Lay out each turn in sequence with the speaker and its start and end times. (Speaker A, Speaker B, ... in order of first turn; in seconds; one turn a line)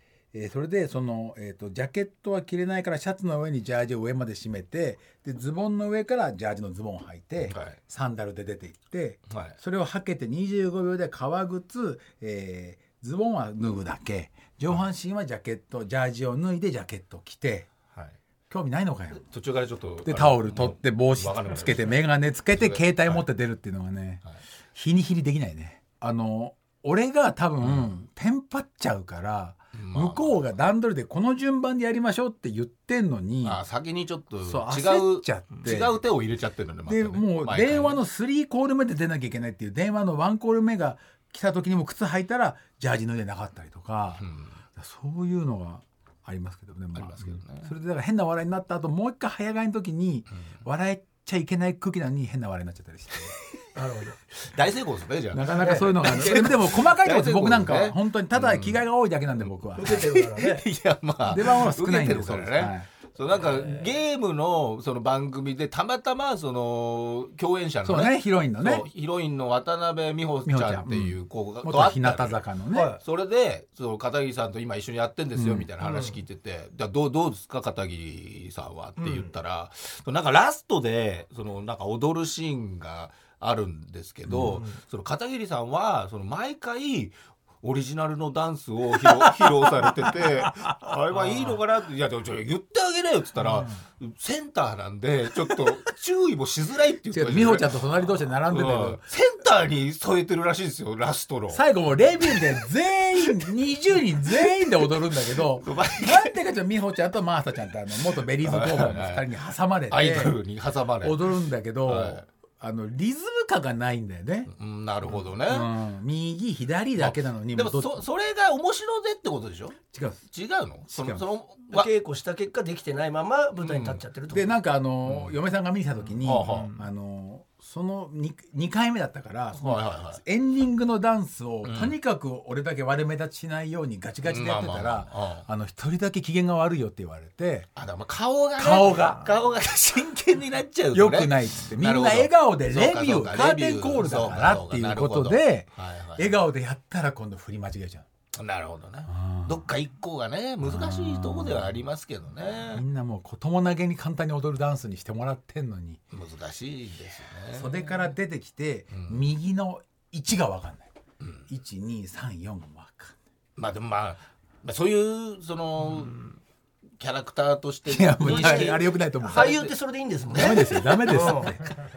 Speaker A: 0.3-17.7
Speaker B: 7.4-7.8
Speaker B: 9.3-9.6
Speaker A: 18.5-19.2
Speaker B: 19.2-23.2
Speaker A: 20.0-24.2
Speaker A: 24.7-33.6
Speaker B: 27.6-27.9
Speaker B: 29.7-30.4
Speaker B: 33.4-38.0
Speaker A: 34.4-36.0
Speaker A: 36.9-44.2
Speaker B: 44.2-44.5
Speaker A: 44.8-53.3
Speaker B: 46.9-47.7
Speaker C: 53.7-54.1
Speaker B: 54.3-58.9
Speaker A: 55.3-60.1
Speaker C: 55.6-56.4
Speaker B: 59.4-72.4
Speaker C: 59.8-60.6
Speaker A: 61.2-62.9
Speaker C: 63.4-63.8
Speaker A: 67.8-68.8
Speaker A: 70.5-72.9
Speaker C: 72.7-73.0
Speaker B: 73.0-102.5
Speaker A: 75.3-75.7
Speaker C: 75.8-76.2
Speaker C: 79.0-79.3
Speaker A: 84.3-84.6
Speaker A: 93.4-93.7
Speaker A: 97.1-99.0
Speaker A: 101.5-110.4
Speaker B: 104.3-106.3
Speaker B: 108.4-109.3
Speaker B: 109.9-112.2
Speaker A: 111.0-114.5
Speaker B: 114.5-115.7
Speaker A: 115.1-118.0
Speaker B: 117.0-119.8
Speaker A: 119.9-120.2
Speaker B: 120.3-121.9
Speaker A: 120.9-121.2
Speaker C: 121.7-124.5
Speaker B: 123.6-124.0
Speaker A: 124.3-137.7
Speaker B: 125.0-125.3
Speaker B: 126.2-126.8
Speaker B: 129.6-130.2
Speaker B: 131.6-131.9
Speaker B: 134.2-135.4
Speaker B: 137.8-146.4
Speaker A: 138.6-139.3
Speaker A: 140.9-148.1
Speaker B: 148.3-152.8
Speaker A: 149.1-149.6
Speaker A: 150.6-151.7
Speaker A: 152.7-156.0
Speaker B: 156.1-157.8
Speaker A: 157.5-160.9
Speaker B: 158.9-159.2
Speaker B: 161.2-161.4
Speaker A: 161.5-163.2
Speaker B: 163.6-166.3
Speaker B: 167.0-169.7
Speaker A: 167.9-169.6
Speaker C: 168.2-171.5
Speaker A: 170.3-171.7
Speaker B: 170.3-171.5